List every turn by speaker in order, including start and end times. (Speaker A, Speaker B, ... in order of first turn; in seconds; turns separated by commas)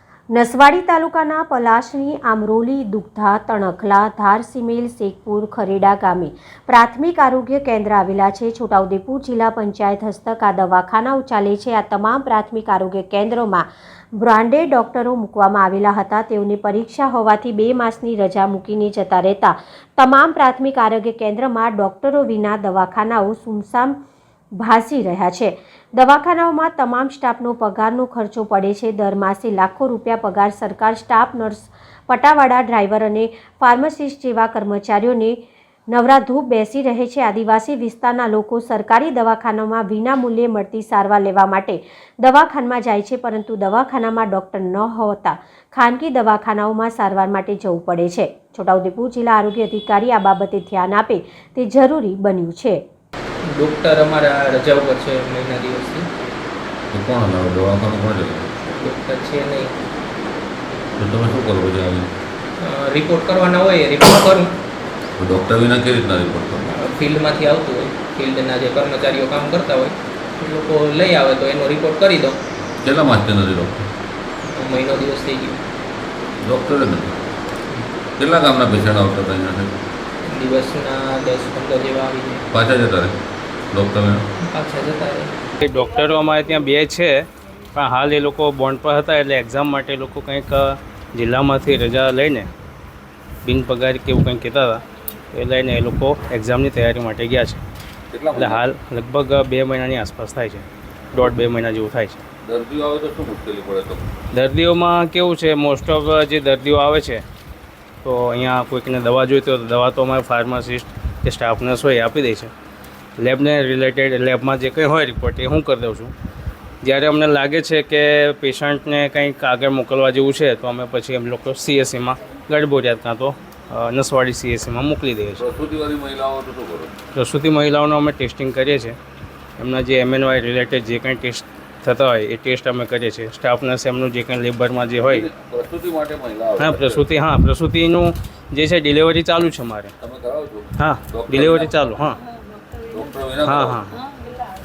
Speaker A: 0.3-23.9, Speaker A: 24.6-35.4, Speaker A: 35.9-52.8, Speaker B: 53.5-56.1, Speaker C: 56.9-58.5, Speaker B: 58.6-59.8, Speaker C: 61.0-62.1, Speaker B: 62.6-64.5, Speaker C: 65.2-66.7, Speaker B: 66.7-72.4, Speaker C: 72.8-73.9, Speaker B: 74.5-75.6, Speaker C: 76.4-77.2, Speaker C: 78.2-79.7, Speaker B: 80.2-82.5, Speaker C: 82.5-83.2, Speaker C: 83.7-84.3, Speaker B: 84.5-85.4, Speaker D: 85.6-92.5, Speaker D: 93.5-94.8, Speaker D: 95.3-97.6, Speaker C: 98.1-98.6, Speaker D: 98.3-102.2, Speaker C: 102.5-104.1, Speaker D: 104.3-107.2, Speaker D: 108.0-112.5, Speaker D: 113.2-116.1, Speaker D: 116.8-125.4, Speaker C: 125.4-126.9, Speaker D: 127.1-129.0, Speaker D: 129.6-135.3, Speaker C: 135.1-137.0, Speaker D: 136.6-139.9, Speaker C: 140.0-141.7, Speaker D: 140.8-142.2, Speaker C: 142.9-143.9, Speaker D: 143.4-144.0